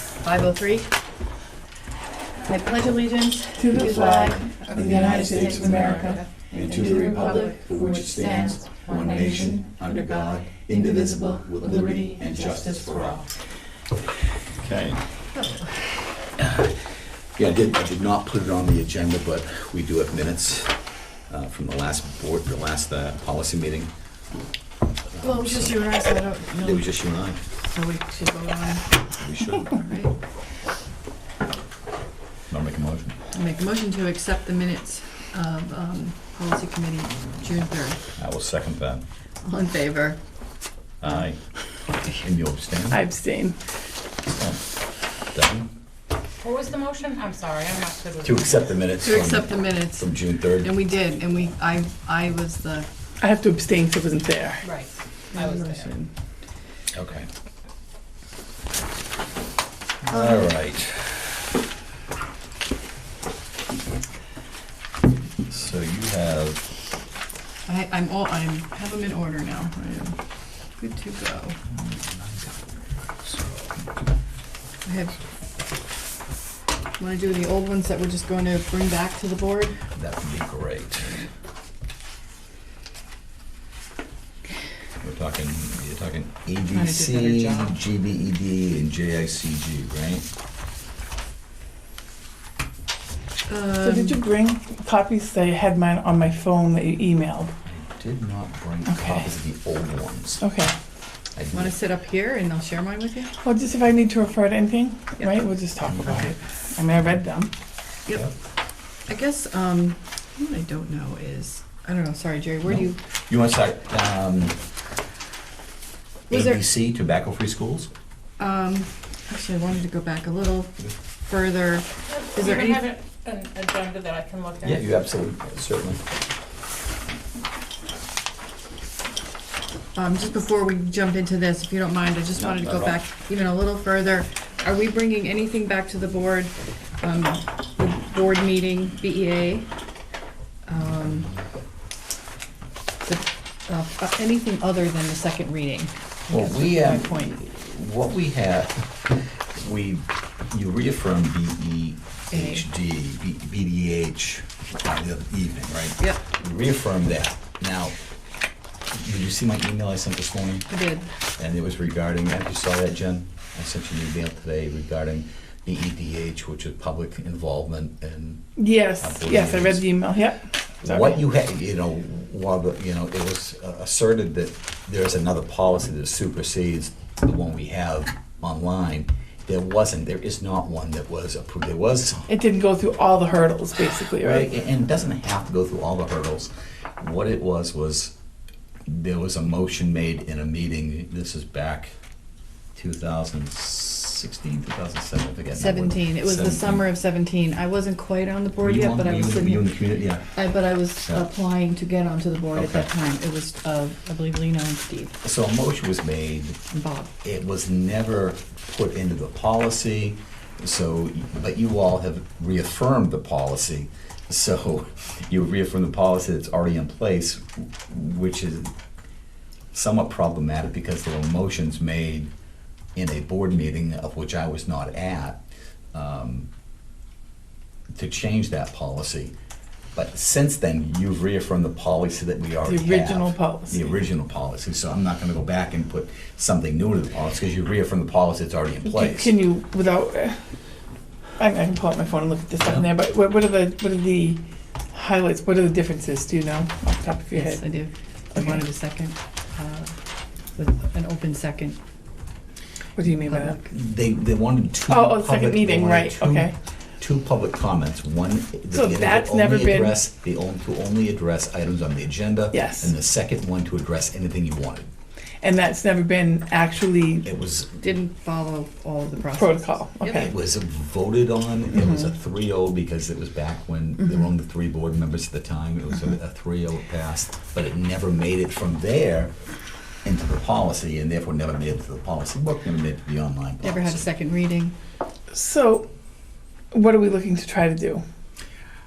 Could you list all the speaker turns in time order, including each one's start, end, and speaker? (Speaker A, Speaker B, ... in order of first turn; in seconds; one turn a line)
Speaker A: 0.2-0.9
Speaker A: 2.4-9.6
Speaker B: 3.6-7.4
Speaker C: 3.7-13.3
Speaker C: 14.6-15.1
Speaker A: 15.3-15.8
Speaker C: 16.4-16.8
Speaker C: 17.4-20.8
Speaker C: 21.3-23.9
Speaker C: 25.1-27.5
Speaker A: 25.2-26.9
Speaker A: 27.5-30.1
Speaker C: 29.2-29.7
Speaker C: 32.5-33.2
Speaker A: 33.3-38.0
Speaker C: 38.2-39.0
Speaker A: 39.4-40.2
Speaker C: 41.0-41.4
Speaker C: 42.0-43.0
Speaker B: 42.9-43.6
Speaker C: 44.3-44.6
Speaker C: 45.3-45.7
Speaker D: 46.4-48.7
Speaker C: 48.2-50.7
Speaker A: 49.0-52.9
Speaker B: 53.2-54.6
Speaker D: 54.6-55.9
Speaker B: 55.3-56.1
Speaker C: 56.9-57.3
Speaker C: 60.0-61.4
Speaker A: 60.1-60.4
Speaker C: 65.5-66.7
Speaker A: 67.7-70.2
Speaker A: 70.8-71.6
Speaker C: 71.7-73.8
Speaker A: 74.8-75.2
Speaker A: 77.0-79.8
Speaker C: 79.9-81.2
Speaker C: 85.0-90.2
Speaker A: 86.7-87.8
Speaker A: 93.5-94.2
Speaker B: 93.8-97.5
Speaker C: 97.6-100.4
Speaker B: 98.9-99.3
Speaker B: 100.4-100.7
Speaker C: 101.3-101.7
Speaker A: 101.5-103.3
Speaker B: 103.4-107.5
Speaker A: 109.0-113.0
Speaker C: 112.6-114.6
Speaker A: 116.3-116.6
Speaker C: 116.3-117.9
Speaker A: 118.4-122.9
Speaker D: 122.1-124.9
Speaker C: 124.6-126.0
Speaker A: 129.9-139.7
Speaker C: 132.4-133.0
Speaker A: 140.7-141.3
Speaker A: 143.0-146.3
Speaker C: 146.3-157.9
Speaker B: 146.9-147.2
Speaker A: 152.3-152.6
Speaker C: 158.9-160.7
Speaker A: 160.7-161.1
Speaker C: 161.4-168.4
Speaker B: 168.6-171.2
Speaker C: 169.0-169.9
Speaker C: 170.8-182.3
Speaker B: 182.3-184.4
Speaker C: 184.2-188.1
Speaker C: 188.8-191.9
Speaker C: 192.8-196.8
Speaker A: 195.5-199.7
Speaker C: 198.6-200.4
Speaker A: 200.3-205.1
Speaker C: 201.0-201.3
Speaker C: 202.5-202.9
Speaker C: 205.2-206.6
Speaker A: 206.7-207.1
Speaker C: 207.2-218.7
Speaker C: 219.7-222.3
Speaker C: 222.9-226.5
Speaker C: 227.9-229.3
Speaker C: 229.9-239.3
Speaker B: 232.6-234.0
Speaker B: 238.8-240.5
Speaker B: 241.4-244.4
Speaker C: 242.6-242.9
Speaker B: 244.9-247.6
Speaker A: 247.3-250.0
Speaker A: 250.5-251.8
Speaker B: 253.0-253.5
Speaker A: 253.2-253.7
Speaker C: 253.6-264.9
Speaker B: 254.9-256.5
Speaker B: 258.7-260.0
Speaker B: 262.5-262.9
Speaker B: 265.4-267.2
Speaker C: 267.2-267.8
Speaker A: 267.8-270.3
Speaker B: 269.2-270.3
Speaker C: 270.0-279.3
Speaker C: 280.0-284.1
Speaker A: 283.6-284.7
Speaker B: 285.3-285.9
Speaker B: 286.7-288.0